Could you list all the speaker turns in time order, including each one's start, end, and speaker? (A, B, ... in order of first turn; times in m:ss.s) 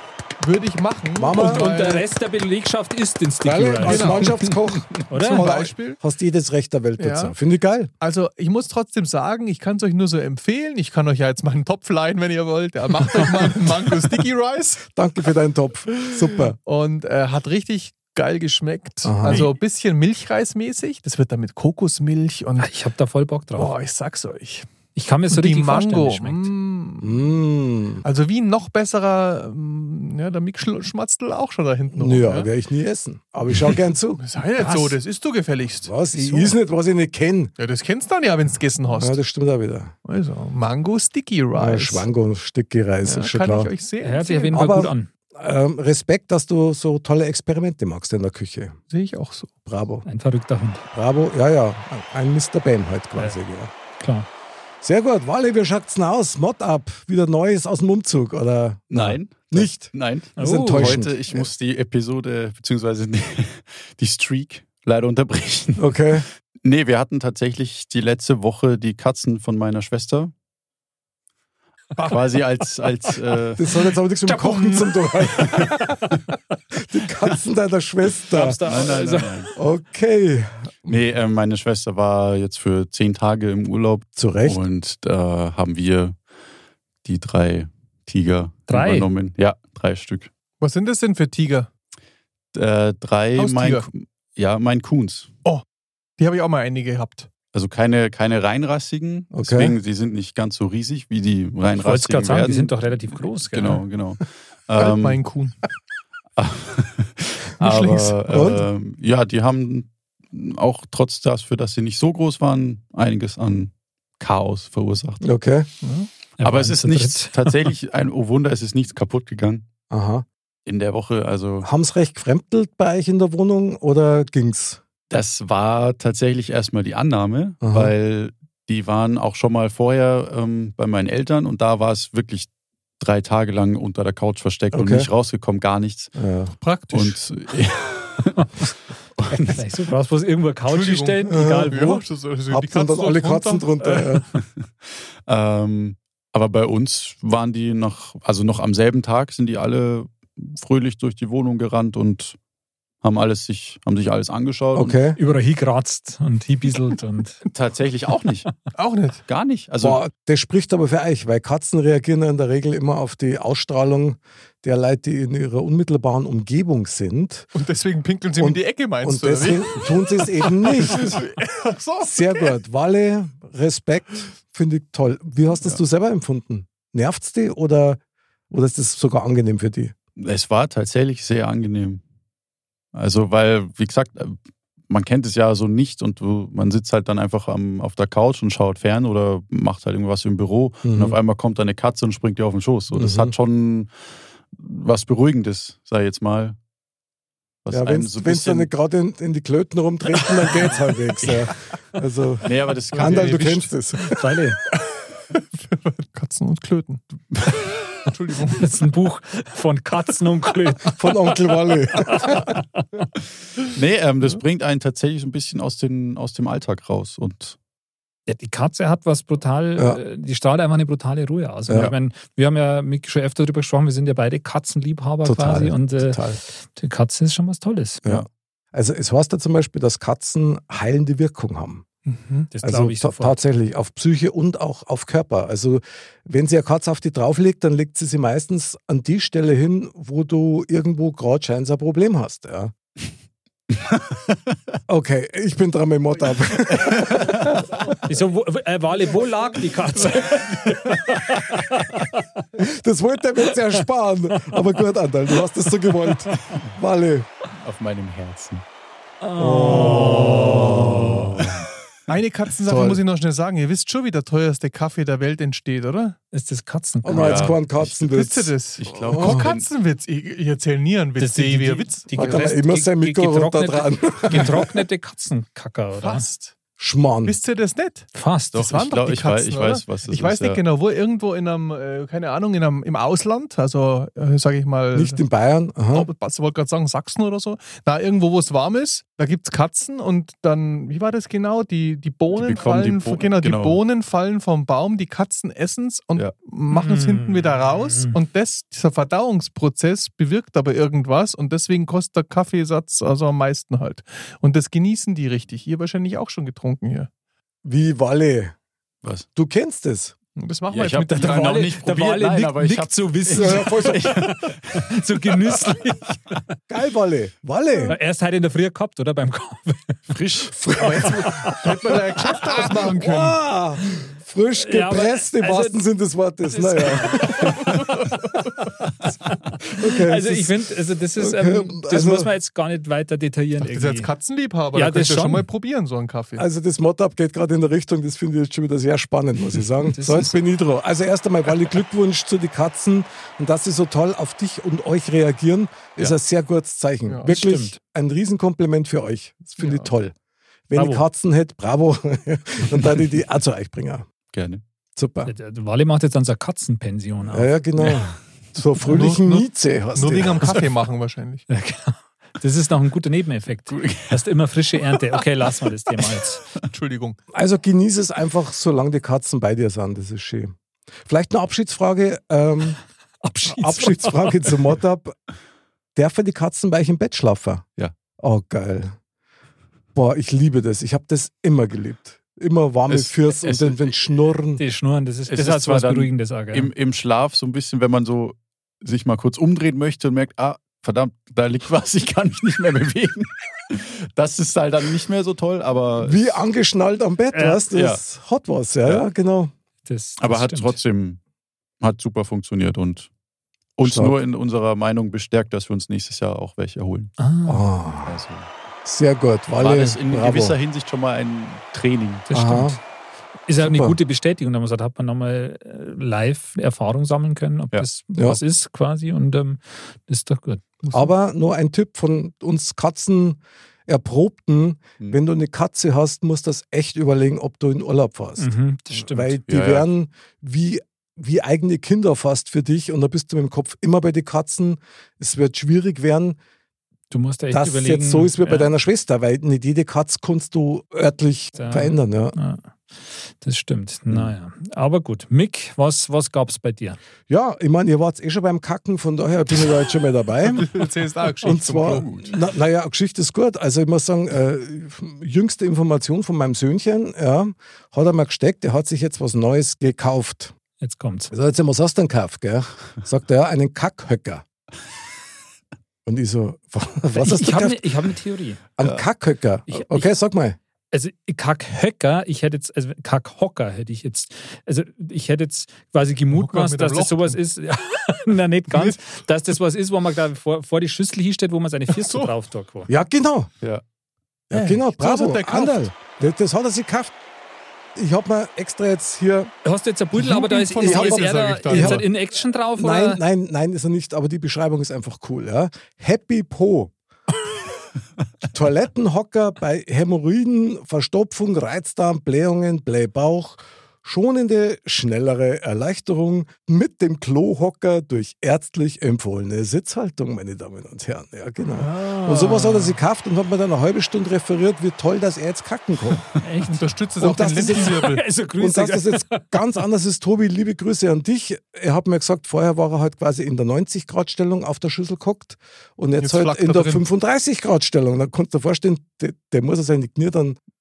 0:00.4-0:02.1 A
0:01.2-0:01.8 B
0:01.4-0:04.2 C
0:03.4-0:07.9 B
0:03.8-0:04.5 A
0:05.1-0:05.4 C
0:05.2-0:06.0 A
0:07.0-0:07.3 A
0:08.0-0:14.9 A
0:15.0-0:16.6 B
0:16.7-0:22.7 A
0:19.0-0:19.5 B
0:22.6-0:23.8 C
0:23.6-0:24.7 A
0:25.0-0:26.5 C
0:25.3-0:27.2 A
0:27.0-0:28.0 B
0:28.0-0:32.5 A
0:31.9-0:34.2 B
0:33.6-0:36.6 A
0:34.7-0:34.9 C
0:35.8-0:37.5 B
0:37.6-0:39.2 A
0:39.0-0:39.9 B
0:40.0-0:42.1 A
0:41.6-0:43.7 B
0:43.0-0:44.9 A
0:44.0-0:45.1 C
0:44.5-0:48.8 B
0:48.9-0:49.5 A
0:49.7-0:50.1 B
0:50.1-0:50.9 C
0:50.9-0:53.7 B
0:54.0-0:54.3 C
0:54.8-1:01.5 B
0:58.9-1:06.0 D
1:00.4-1:01.0 C
1:05.8-1:06.3 B
1:06.6-1:10.3 D
1:12.0-1:12.3 A
1:12.1-1:13.6 D
1:13.6-1:16.1 B
1:14.3-1:16.1 C
1:16.8-1:18.6 B
1:18.3-1:19.5 C
1:18.5-1:19.5 D
1:19.6-1:21.0 B
1:20.9-1:26.2 D
1:24.2-1:24.6 B
1:27.0-1:30.3 D
1:28.7-1:29.1 C
1:30.6-1:31.7 A
1:32.5-1:35.3 D
1:33.4-1:33.9 A
1:36.2-1:37.3 A
1:37.5-1:42.7 D
1:39.3-1:39.8 B
1:41.8-1:43.8 C
1:43.5-1:45.2 D
1:44.8-1:45.6 A
1:46.4-1:55.2 D
1:47.6-1:48.2 A
1:48.3-1:48.7 B
1:55.2-1:55.7 B
1:55.8-1:56.1 A
1:56.4-1:57.6 C
1:56.4-1:59.7 D
1:59.9-2:00.2 B
2:00.6-2:01.7 D
2:01.6-2:04.8 B
2:05.1-2:12.5 D
2:07.6-2:07.9 B
2:13.0-2:16.1 D
2:14.7-2:15.1 B
2:16.2-2:16.5 B
2:16.6-2:17.2 A
2:16.9-2:18.6 D
2:19.2-2:19.6 D
2:19.5-2:22.0 C
2:20.7-2:24.1 A
2:21.3-2:21.8 B
2:22.5-2:24.3 B
2:24.4-2:32.4 D
2:33.0-2:35.0 D
2:34.7-2:35.2 B
2:35.2-2:37.4 C
2:37.5-2:38.5 D
2:38.8-2:39.2 A
2:39.3-2:40.0 D
2:39.8-2:47.5 B
2:47.5-2:52.6 A
2:48.4-2:51.2 B
2:52.0-2:58.0 B
2:58.5-2:59.9 B
3:00.2-3:02.0 D
3:02.9-3:13.9 D
3:10.8-3:11.2 B
3:12.9-3:13.3 B
3:14.5-3:16.6 D
3:17.6-3:18.7 D
3:17.7-3:24.4 B
3:22.4-3:23.7 D
3:22.9-3:23.5 A
3:24.2-3:24.6 C
3:25.4-3:27.0 A
3:28.0-3:28.7 A
3:28.6-3:32.8 C
3:30.9-3:32.6 B
3:33.7-3:37.6 D
3:38.3-3:48.0 C
3:41.7-3:41.9 B
3:45.2-3:46.4 B
3:48.0-3:51.8 B
3:52.1-3:52.5 A
3:52.5-3:53.4 C
3:52.6-4:02.7 B
4:04.9-4:07.6 B
4:08.1-4:12.4 C
4:12.6-4:17.3 B
4:16.3-4:16.6 C
4:17.6-4:18.6 D
4:19.2-4:21.4 C
4:19.4-4:21.5 B
4:22.1-4:26.2 A
4:22.6-4:23.0 B
4:26.3-4:27.6 C
4:27.0-4:29.5 B
4:27.1-4:28.1 D
4:28.0-4:32.5 A
4:28.8-4:29.7 D
4:31.2-4:36.3 C
4:32.2-4:34.7 B
4:36.0-4:36.5 A
4:36.8-4:37.4 B
4:37.2-4:45.2 A
4:38.2-4:38.6 C
4:38.5-4:40.6 D
4:44.9-4:46.1 B
4:45.9-5:07.1 A
4:52.3-4:53.8 D
4:56.7-4:58.2 C
5:07.6-5:08.5 B
5:09.4-5:10.1 B
5:10.4-5:11.7 A
5:10.7-5:14.8 D
5:11.1-5:16.6 C
5:13.3-5:14.2 B
5:16.7-5:18.0 B
5:17.9-5:20.1 C
5:20.1-5:20.5 D
5:20.5-5:21.7 B
5:20.8-5:23.4 A
5:21.0-5:21.6 C
5:22.6-5:27.6 B
5:24.6-5:25.8 C
5:26.4-5:27.7 C
5:29.3-5:34.1 C
5:29.6-5:30.6 B
5:31.2-5:32.3 B
5:33.6-5:36.5 A
5:34.7-5:35.5 C
5:36.4-5:50.2 B
5:39.9-5:40.3 C
5:47.3-5:47.8 C
5:49.6-5:49.9 A
5:50.7-5:54.1 B
5:50.7-5:51.0 C
5:54.3-5:54.6 D
5:55.0-5:55.3 B
5:55.3-5:57.5 C
5:57.3-6:00.6 B
5:58.9-6:01.4 A
6:01.5-6:06.4 C
6:03.7-6:04.2 D
6:06.6-6:07.2 A
6:07.3-6:12.8 B
6:13.2-6:14.5 C
6:13.4-6:15.2 B
6:16.0-6:17.6 B
6:18.2-6:18.9 B
6:20.0-6:24.6 B
6:22.9-6:23.9 D
6:24.6-6:26.7 C
6:25.3-6:36.4 D
6:36.0-6:39.5 B
6:37.3-6:37.6 C
6:37.7-6:38.0 D
6:39.9-6:40.8 C
6:40.2-6:41.2 D
6:41.8-6:43.1 D
6:43.8-6:47.1 D
6:43.8-6:44.2 B
6:47.2-6:47.7 C
6:47.5-6:48.2 B
6:48.1-6:48.5 D
6:48.8-6:50.6 B
6:49.6-6:52.3 D
6:52.3-6:52.8 C
6:52.3-6:52.8 B
6:53.5-7:01.0 C
6:53.6-6:54.0 B
6:58.1-6:58.4 B
7:00.9-7:16.4 B
7:08.4-7:09.4 C
7:09.5-7:09.9 D
7:17.1-7:18.7 C
7:17.5-7:22.4 B
7:21.6-7:22.6 C
7:23.3-7:27.0 C
7:27.3-7:30.7 B
7:30.4-7:32.2 A
7:31.4-7:40.5 B
7:31.9-7:32.3 D
7:40.8-7:41.3 C
7:41.3-7:44.4 B
7:46.1-7:48.1 B
7:47.1-7:48.6 C
7:48.8-7:50.6 B
7:49.7-7:50.1 C
7:50.9-8:02.9 C
7:56.3-7:57.4 A
7:58.7-7:59.0 A
8:01.9-8:02.3 A
8:02.9-8:03.5 B
8:04.5-8:07.1 B
8:04.5-8:05.9 A
8:08.0-8:09.5 B
8:09.6-8:13.2 C
8:10.2-8:12.0 A
8:10.8-8:12.0 B
8:12.8-8:16.9 B
8:18.5-8:36.3 B
8:31.8-8:33.0 A
8:36.4-8:36.8 C
8:36.7-8:38.2 A
8:37.2-8:50.6 B
8:37.8-8:39.6 C
8:46.2-8:47.0 A